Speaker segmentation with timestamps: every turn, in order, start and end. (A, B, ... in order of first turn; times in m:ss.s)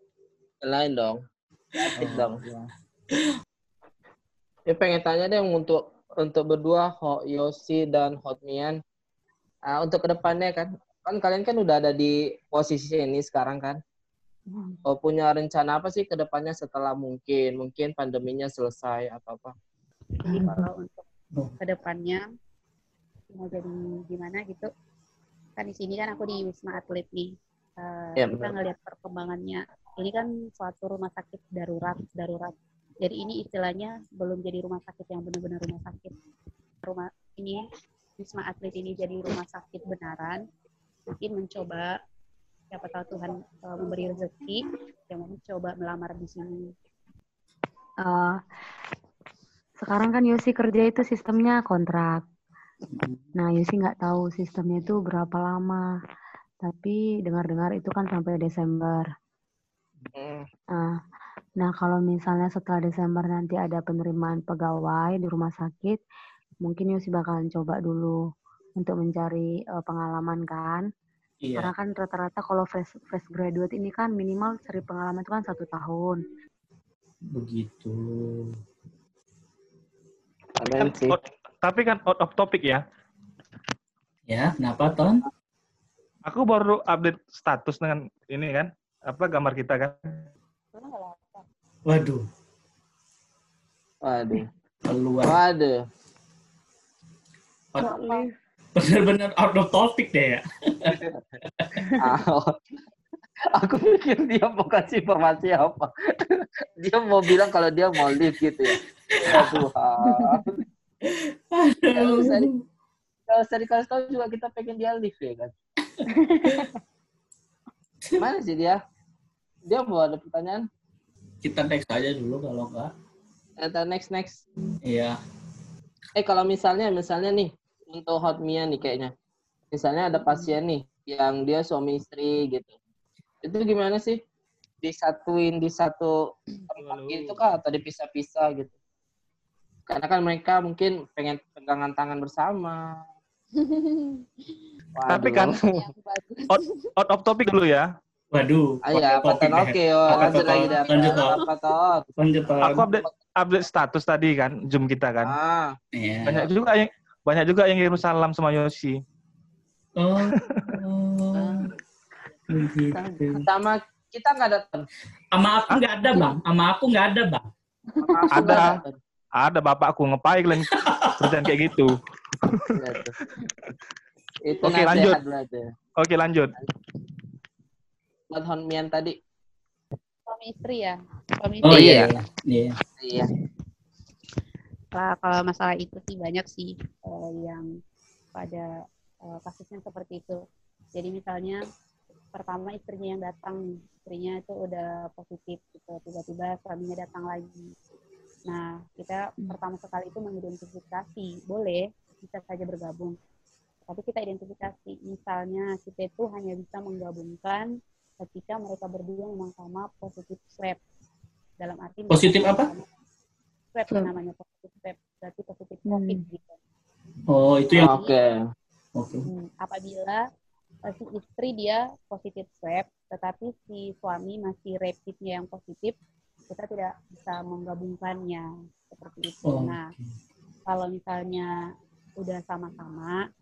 0:00.6-0:01.2 A
0:01.8-0:02.4 A
0:02.0-0:02.7 B
0:04.7-0:08.8 A
0:09.7-0:13.8 A
0:14.5-0:14.8 C
0:14.9-0:19.6 A
0:20.2-0:21.1 D
0:20.3-0:20.6 C
0:21.6-0:22.2 D
0:23.3-0:24.7 D
0:25.6-0:36.1 D
0:28.2-0:28.6 A
0:36.8-0:37.6 D
0:38.2-0:40.4 D
0:41.1-0:41.9 D
0:42.7-0:46.6 D
0:48.0-0:48.4 C
0:49.8-0:52.2 C
0:53.0-0:53.2 E
0:53.4-0:55.9 C
0:56.6-0:59.0 C
1:00.1-1:00.5 A
1:01.6-1:06.0 C
1:06.6-1:08.2 C
1:08.8-1:10.9 C
1:11.4-1:11.7 E
1:11.6-1:16.2 C
1:17.3-1:18.6 E
1:20.6-1:21.2 A
1:20.8-1:22.8 B
1:24.3-1:25.2 E
1:26.3-1:30.3 B
1:30.7-1:31.5 D
1:31.9-1:32.2 E
1:34.0-1:34.5 A
1:34.9-1:35.4 E
1:35.2-1:35.9 A
1:37.7-1:38.0 E
1:37.8-1:38.3 C
1:37.8-1:38.2 D
1:38.8-1:41.0 E
1:40.9-1:41.2 A
1:42.0-1:42.6 A
1:43.5-1:50.5 A
1:49.1-1:49.7 E
1:50.0-1:50.4 C
1:51.0-1:52.6 E
1:51.9-1:52.5 A
1:53.3-1:55.5 A
1:56.0-1:56.7 E
1:56.1-1:56.7 C
1:58.2-1:58.8 A
1:59.6-2:00.6 A
2:01.4-2:02.9 E
2:03.6-2:04.4 A
2:04.8-2:05.2 E
2:06.2-2:09.1 A
2:09.7-2:12.7 A
2:13.4-2:14.2 A
2:14.8-2:18.7 A
2:16.8-2:17.4 B
2:19.9-2:23.0 A
2:23.6-2:24.3 D
2:25.0-2:25.6 A
2:25.1-2:25.7 B
2:25.4-2:26.9 D
2:26.5-2:27.9 B
2:28.3-2:31.4 E
2:28.8-2:32.1 A
2:30.2-2:31.4 D
2:32.2-2:32.9 E
2:32.6-2:35.4 B
2:32.9-2:33.1 A
2:35.2-2:35.8 A
2:35.9-2:36.5 E
2:36.3-2:39.0 B
2:40.0-2:41.7 E
2:40.2-2:40.8 B
2:41.4-2:41.7 A
2:42.5-2:43.5 E
2:42.9-2:43.3 C
2:43.4-2:44.9 A
2:45.3-2:47.5 E
2:48.0-2:48.6 C
2:48.0-2:49.0 A
2:48.3-2:48.8 B
2:49.4-2:53.4 B
2:50.7-2:51.4 E
2:52.8-2:53.2 A
2:54.4-2:55.7 A
2:54.6-2:55.2 B
2:56.0-2:56.6 B
2:58.3-2:59.2 A
3:00.3-3:02.2 D
3:01.6-3:02.8 E
3:01.6-3:02.1 A
3:03.0-3:03.3 A
3:04.9-3:07.6 D
3:08.4-3:08.7 D
3:09.3-3:10.4 D
3:11.0-3:11.6 D
3:12.3-3:17.7 D
3:18.5-3:23.2 D
3:23.9-3:27.7 D
3:28.2-3:30.8 D
3:31.6-3:32.9 D
3:32.1-3:32.7 E
3:33.7-3:36.6 D
3:35.9-3:36.2 C
3:37.3-3:38.0 E
3:37.7-3:38.1 D
3:37.8-3:38.4 A
3:39.0-3:39.3 E
3:39.6-3:40.2 D
3:40.9-3:46.0 D
3:46.5-3:49.9 D
3:49.5-3:49.8 E
3:50.7-3:51.5 D
3:52.2-3:53.2 D